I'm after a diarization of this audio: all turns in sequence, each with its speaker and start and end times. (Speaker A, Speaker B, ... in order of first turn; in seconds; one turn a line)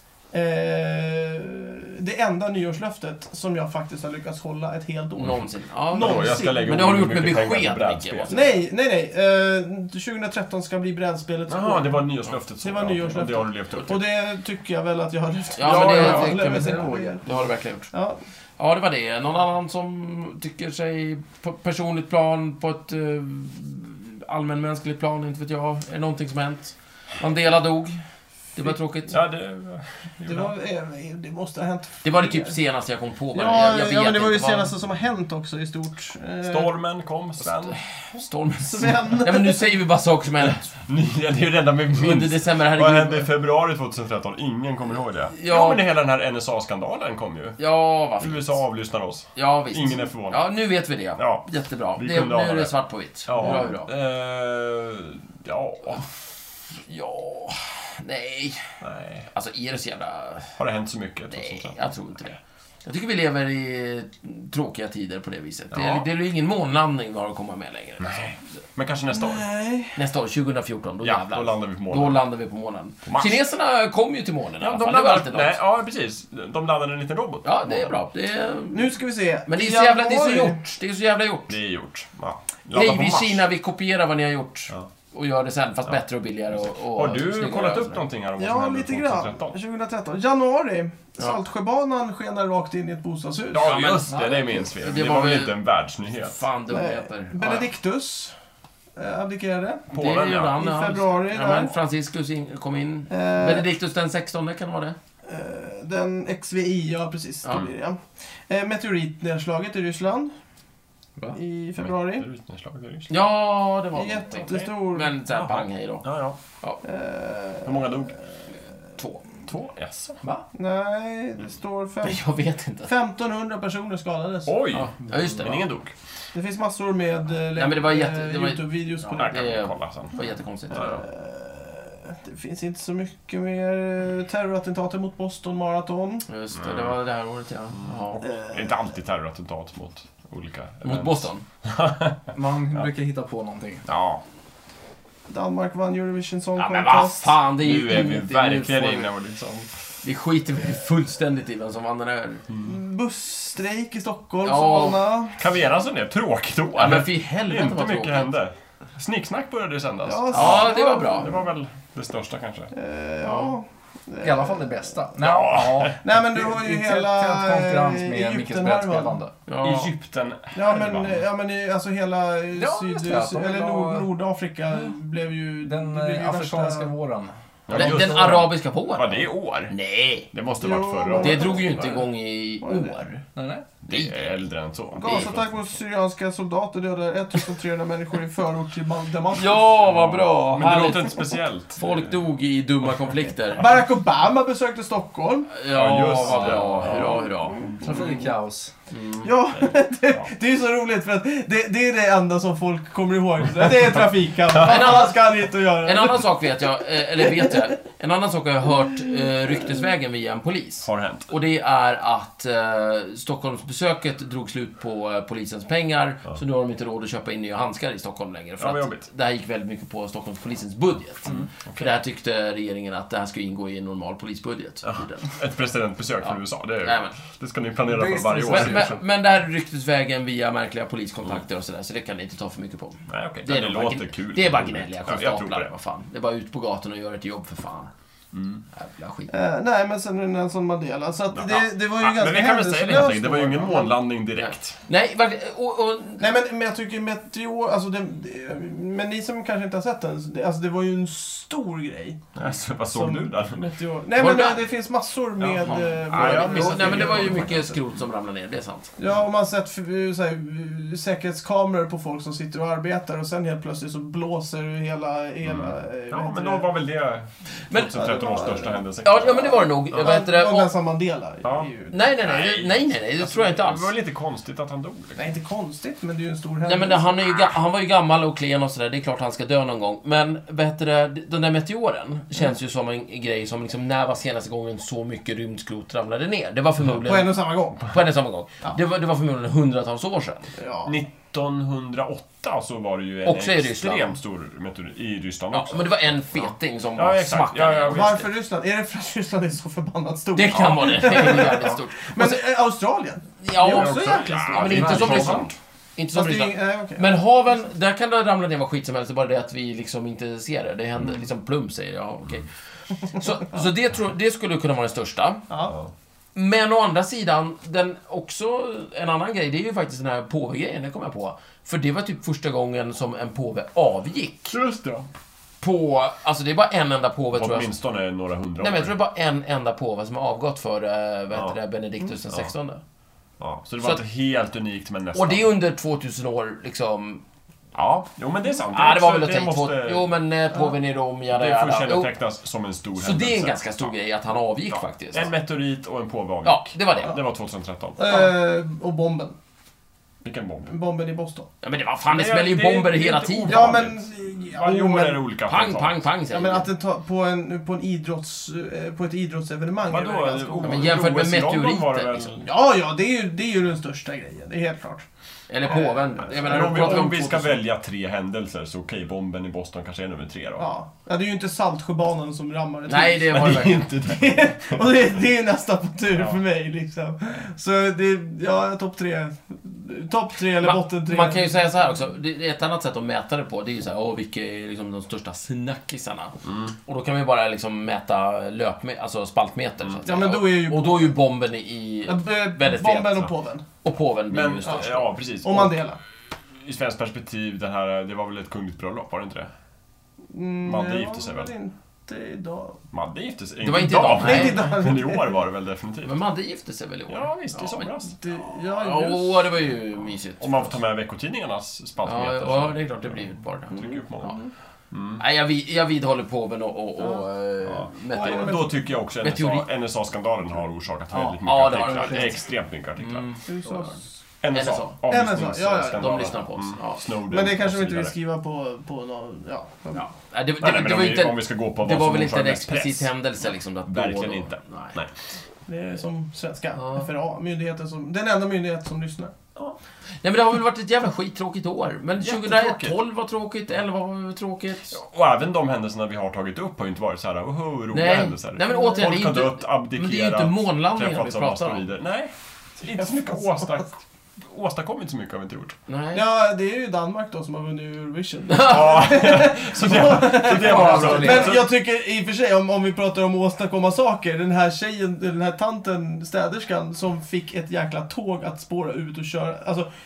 Speaker A: 0.3-6.8
Speaker B: 5.2-8.6
Speaker C: 5.9-8.5
Speaker A: 8.3-12.1
Speaker C: 11.5-14.0
Speaker A: 12.6-17.2
Speaker B: 15.6-17.9
Speaker C: 15.6-16.5
Speaker D: 16.6-16.9
Speaker A: 17.9-18.2
Speaker B: 18.6-28.0
Speaker B: 28.5-29.1
Speaker C: 29.1-30.5
Speaker A: 30.3-32.6
Speaker B: 32.0-34.7
Speaker A: 33.3-36.7
Speaker C: 36.4-37.8
Speaker B: 37.7-40.7
Speaker A: 38.7-39.6
Speaker C: 40.8-47.6
Speaker B: 41.9-43.3
Speaker B: 45.3-45.8
Speaker B: 47.6-48.6
Speaker C: 48.2-50.5
Speaker B: 49.4-53.9
Speaker C: 51.1-56.3
Speaker B: 56.9-58.7
Speaker C: 58.8-59.3
Speaker B: 59.3-60.6
Speaker C: 60.6-61.8
Speaker B: 61.3-68.3
Speaker C: 65.7-66.1
Speaker C: 68.0-69.4
Speaker A: 69.1-70.0
Speaker B: 70.0-75.6
Speaker C: 71.0-72.2
Speaker C: 73.1-73.4
Speaker C: 74.6-77.9
Speaker B: 77.4-78.9
Speaker A: 78.7-80.6
Speaker B: 79.5-81.6
Speaker C: 81.5-83.4
Speaker B: 82.7-88.0
Speaker C: 86.5-89.6
Speaker A: 88.4-93.7
Speaker C: 93.5-96.4
Speaker B: 93.6-95.6
Speaker D: 94.1-94.5
Speaker B: 96.1-97.7
Speaker A: 96.7-98.3
Speaker A: 99.0-99.9
Speaker C: 99.9-100.5
Speaker B: 99.9-105.0
Speaker A: 100.5-101.8
Speaker A: 103.1-103.7
Speaker A: 105.2-110.3
Speaker A: 111.3-112.3
Speaker C: 111.8-113.1
Speaker B: 113.1-116.1
Speaker A: 113.9-115.1
Speaker C: 115.3-116.4
Speaker A: 116.8-118.2
Speaker C: 117.6-118.2
Speaker B: 119.0-119.2
Speaker C: 119.5-120.2
Speaker A: 120.5-122.3
Speaker B: 122.0-122.9
Speaker A: 122.8-124.6
Speaker C: 124.5-125.9
Speaker B: 124.7-125.6
Speaker A: 126.3-129.5
Speaker B: 127.5-131.0
Speaker C: 129.2-130.2
Speaker C: 130.7-131.0
Speaker A: 130.7-136.3
Speaker B: 136.3-138.2
Speaker C: 136.6-137.0
Speaker C: 137.8-142.2
Speaker A: 138.2-138.7
Speaker B: 140.8-141.4
Speaker D: 142.3-143.8
Speaker C: 143.9-144.2
Speaker A: 145.3-147.3
Speaker B: 146.6-149.1
Speaker C: 147.6-149.7
Speaker B: 150.0-152.4
Speaker A: 152.6-155.4
Speaker B: 154.4-155.0
Speaker C: 155.4-162.7
Speaker B: 156.8-158.3
Speaker A: 160.1-161.4
Speaker B: 160.3-161.3
Speaker A: 162.7-164.9
Speaker B: 163.2-163.6
Speaker D: 164.2-169.3
Speaker C: 165.2-166.0
Speaker A: 166.0-169.2
Speaker B: 169.5-170.0
Speaker C: 169.6-171.2
Speaker A: 170.5-176.9
Speaker D: 172.5-174.1
Speaker D: 175.6-178.4
Speaker C: 177.7-179.8
Speaker B: 177.7-180.3
Speaker C: 180.3-181.8
Speaker A: 180.6-182.1
Speaker B: 181.2-183.2
Speaker A: 182.6-183.0
Speaker D: 183.3-183.7
Speaker C: 183.8-185.5
Speaker B: 183.9-184.3
Speaker A: 185.0-189.6
Speaker B: 189.3-193.6
Speaker C: 189.8-192.2
Speaker A: 193.6-195.5
Speaker B: 195.5-197.6
Speaker C: 195.7-198.0
Speaker A: 196.7-198.1
Speaker D: 197.8-198.7
Speaker B: 198.9-199.3
Speaker A: 199.2-206.4
Speaker C: 199.5-200.3
Speaker C: 203.7-204.1
Speaker B: 204.6-205.2
Speaker C: 204.6-204.9
Speaker B: 205.8-225.3
Speaker A: 207.2-207.7
Speaker C: 210.8-211.3
Speaker C: 218.6-219.1
Speaker C: 221.3-221.9
Speaker C: 224.8-228.9
Speaker B: 226.2-227.2
Speaker D: 227.9-229.0
Speaker B: 228.5-237.9
Speaker C: 233.1-235.7
Speaker C: 238.3-238.6
Speaker B: 238.7-239.3
Speaker A: 239.3-244.0
Speaker C: 241.3-244.8
Speaker B: 244.4-246.3
Speaker A: 246.2-252.2
Speaker C: 252.3-253.7
Speaker A: 252.9-257.6
Speaker B: 254.2-254.6
Speaker C: 255.4-257.9
Speaker B: 255.6-258.9
Speaker A: 259.0-266.7
Speaker C: 265.4-270.1
Speaker B: 267.7-268.4
Speaker A: 267.9-271.9
Speaker B: 269.0-270.7
Speaker C: 271.4-275.2
Speaker B: 271.9-273.9
Speaker A: 275.1-277.1
Speaker B: 276.6-290.5
Speaker A: 287.0-287.9
Speaker A: 290.6-290.9
Speaker C: 290.9-295.9
Speaker B: 293.2-294.2
Speaker B: 295.5-298.2
Speaker C: 297.0-298.3
Speaker A: 297.9-305.4
Speaker B: 300.4-302.4
Speaker C: 300.5-301.6
Speaker B: 303.4-312.5
Speaker C: 303.6-305.6
Speaker D: 304.7-305.4
Speaker A: 306.1-307.1
Speaker B: 313.0-315.4
Speaker A: 315.5-315.8
Speaker B: 316.4-324.6
Speaker C: 324.5-325.1
Speaker B: 325.6-327.7
Speaker C: 327.4-328.9
Speaker B: 328.6-332.8
Speaker C: 333.4-335.4
Speaker B: 335.1-337.2
Speaker C: 337.8-340.1
Speaker B: 338.7-342.1
Speaker C: 341.3-343.9
Speaker B: 343.0-345.3
Speaker C: 344.7-348.0
Speaker B: 346.4-347.2
Speaker A: 348.0-349.4
Speaker C: 350.2-350.7
Speaker A: 350.7-351.5
Speaker B: 351.6-353.9
Speaker C: 352.1-356.0
Speaker A: 353.5-355.2
Speaker B: 355.5-356.7
Speaker A: 356.3-361.0
Speaker C: 359.9-362.5
Speaker B: 360.6-362.4
Speaker A: 362.4-365.1
Speaker B: 365.5-367.6
Speaker A: 365.6-367.2
Speaker C: 366.2-370.7
Speaker A: 370.6-381.6
Speaker B: 372.9-374.0
Speaker C: 373.3-374.9
Speaker B: 380.6-393.3
Speaker C: 386.4-386.8
Speaker A: 390.0-391.1
Speaker A: 392.1-393.6
Speaker B: 393.8-395.1
Speaker C: 394.3-395.8
Speaker A: 395.4-396.0
Speaker C: 396.6-399.5
Speaker A: 400.3-402.8
Speaker C: 400.6-401.5
Speaker C: 402.9-406.2
Speaker B: 403.6-404.7
Speaker A: 404.0-405.4
Speaker B: 406.0-408.0
Speaker C: 407.1-408.1
Speaker A: 408.1-409.5
Speaker B: 408.8-410.8
Speaker C: 410.4-415.2
Speaker B: 412.0-414.4
Speaker A: 414.2-414.5
Speaker B: 415.2-419.6
Speaker A: 417.0-417.3
Speaker C: 417.6-423.3
Speaker A: 418.1-418.8
Speaker D: 421.1-422.4
Speaker B: 421.4-422.4
Speaker B: 423.0-424.0
Speaker A: 423.5-424.1
Speaker C: 424.4-428.1
Speaker B: 424.5-425.0
Speaker A: 425.1-426.4
Speaker B: 426.0-427.1
Speaker A: 427.3-430.1
Speaker B: 429.9-435.0
Speaker C: 430.6-433.1
Speaker C: 433.9-435.1
Speaker A: 435.6-439.3
Speaker B: 436.8-437.1
Speaker B: 440.2-444.9
Speaker C: 442.2-443.0
Speaker C: 444.9-455.8
Speaker B: 447.9-451.9
Speaker A: 448.7-449.1
Speaker A: 452.8-453.8
Speaker B: 455.9-456.2
Speaker A: 456.1-469.9
Speaker B: 458.5-459.0
Speaker C: 458.6-461.7
Speaker D: 460.4-461.6